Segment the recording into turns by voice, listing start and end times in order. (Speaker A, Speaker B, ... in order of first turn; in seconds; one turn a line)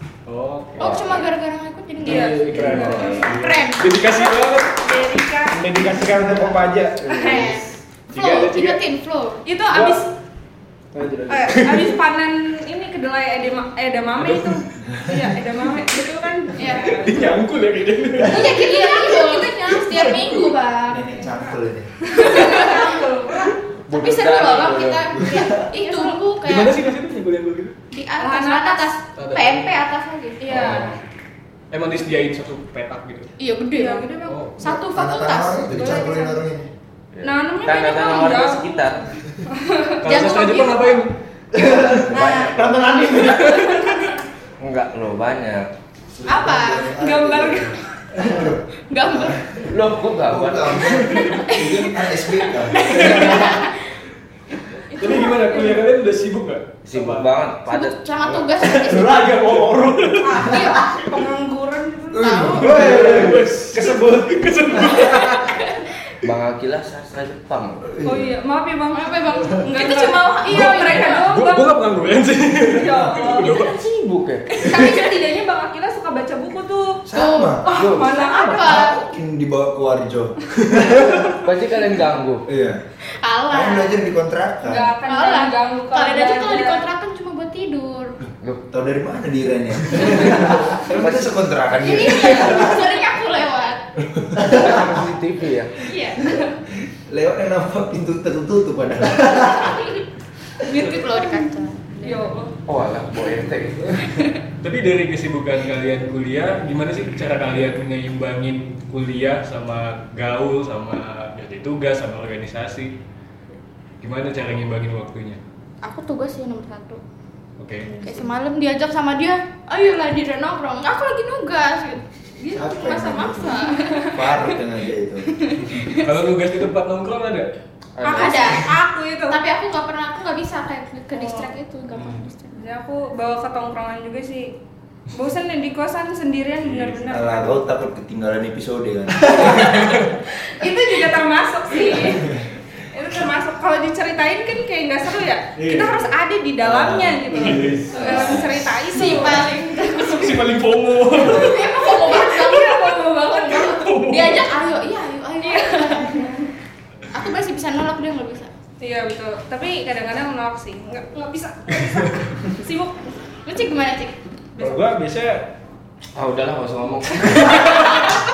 Speaker A: 0.3-1.2
Speaker B: 0.8-4.0
Speaker C: 2.0-3.4
Speaker D: 2.0-3.4
Speaker A: 2.2-4.8
Speaker C: 4.0-6.2
Speaker D: 5.5-7.7
Speaker C: 7.0-7.6
Speaker B: 7.2-9.4
Speaker A: 8.1-8.8
Speaker C: 9.5-10.1
Speaker D: 9.7-10.0
Speaker D: 10.9-11.8
Speaker C: 11.3-17.3
Speaker A: 14.2-14.6
Speaker B: 16.6-17.1
Speaker A: 16.7-18.7
Speaker D: 17.1-17.4
Speaker B: 18.2-21.1
Speaker C: 18.6-19.5
Speaker A: 19.7-20.6
Speaker E: 20.9-21.9
Speaker C: 21.2-21.5
Speaker C: 22.1-23.6
Speaker B: 22.1-26.8
Speaker F: 23.9-25.3
Speaker E: 25.2-25.7
Speaker C: 25.7-26.2
Speaker A: 26.4-27.8
Speaker B: 27.9-31.0
Speaker C: 28.2-28.9
Speaker A: 29.1-29.8
Speaker C: 30.4-30.9
Speaker A: 30.5-31.0
Speaker A: 31.7-33.3
Speaker B: 33.4-36.4
Speaker C: 33.8-34.5
Speaker A: 34.2-34.6
Speaker E: 34.6-36.7
Speaker C: 35.7-36.4
Speaker F: 37.1-39.1
Speaker C: 37.2-40.0
Speaker A: 40.0-41.1
Speaker B: 40.0-41.1
Speaker E: 41.5-42.2
Speaker F: 42.1-43.6
Speaker B: 42.1-44.0
Speaker A: 43.2-44.1
Speaker F: 44.6-45.7
Speaker E: 46.1-49.6
Speaker B: 46.3-47.0
Speaker C: 47.0-47.8
Speaker B: 48.2-49.7
Speaker F: 49.7-51.0
Speaker E: 50.2-53.4
Speaker B: 51.2-53.8
Speaker C: 53.0-53.5
Speaker A: 53.1-53.4
Speaker B: 54.9-55.6
Speaker A: 55.0-57.3
Speaker C: 55.2-55.7
Speaker F: 56.9-58.6
Speaker B: 57.7-59.4
Speaker D: 58.6-60.4
Speaker C: 60.2-62.9
Speaker B: 60.3-61.0
Speaker E: 62.1-63.5
Speaker B: 62.2-62.9
Speaker A: 62.5-65.5
Speaker D: 62.8-64.8
Speaker B: 65.0-65.8
Speaker F: 66.2-67.9
Speaker E: 67.9-68.3
Speaker C: 68.0-71.8
Speaker B: 68.9-71.3
Speaker A: 70.5-73.8
Speaker C: 72.6-73.6
Speaker F: 73.4-74.6
Speaker C: 74.6-77.0
Speaker B: 74.6-75.2
Speaker E: 77.1-77.7
Speaker B: 77.1-79.0
Speaker F: 77.7-78.4
Speaker C: 77.7-78.9
Speaker E: 78.6-81.3
Speaker F: 81.3-82.5
Speaker E: 82.5-82.8
Speaker B: 83.2-84.0
Speaker E: 83.5-84.9
Speaker C: 84.6-86.9
Speaker B: 85.0-88.2
Speaker E: 88.7-92.9
Speaker F: 90.5-92.5
Speaker B: 91.7-93.8
Speaker E: 94.2-95.1
Speaker F: 94.5-95.9
Speaker B: 95.8-96.5
Speaker E: 97.1-99.8
Speaker B: 99.3-100.0
Speaker B: 100.7-102.4
Speaker C: 102.0-102.5
Speaker F: 102.7-104.0
Speaker A: 104.6-112.9
Speaker A: 114.0-115.4
Speaker B: 115.8-117.0
Speaker A: 117.6-118.0
Speaker B: 117.9-124.3
Speaker E: 122.5-123.6
Speaker E: 124.1-125.3
Speaker B: 125.4-126.1
Speaker A: 125.9-127.5
Speaker F: 128.0-128.7
Speaker C: 128.0-129.4
Speaker B: 128.2-128.8
Speaker B: 129.3-132.5
Speaker C: 131.1-131.5
Speaker A: 132.0-132.2
Speaker C: 132.5-134.5
Speaker C: 135.1-137.5
Speaker A: 136.6-137.2
Speaker E: 137.1-139.8
Speaker C: 139.2-142.4
Speaker A: 139.8-140.1
Speaker C: 142.9-150.3
Speaker A: 145.6-146.1
Speaker E: 146.6-147.2
Speaker A: 147.3-148.1
Speaker B: 147.9-148.3
Speaker E: 148.0-148.6
Speaker B: 148.9-150.4
Speaker A: 150.1-151.6
Speaker B: 151.1-156.5
Speaker C: 151.1-153.8
Speaker A: 153.7-154.5
Speaker C: 155.4-156.4
Speaker B: 157.1-158.5
Speaker C: 158.8-163.2
Speaker A: 161.9-162.3
Speaker B: 163.5-164.1
Speaker C: 164.6-164.9
Speaker D: 164.6-165.5
Speaker F: 166.2-168.1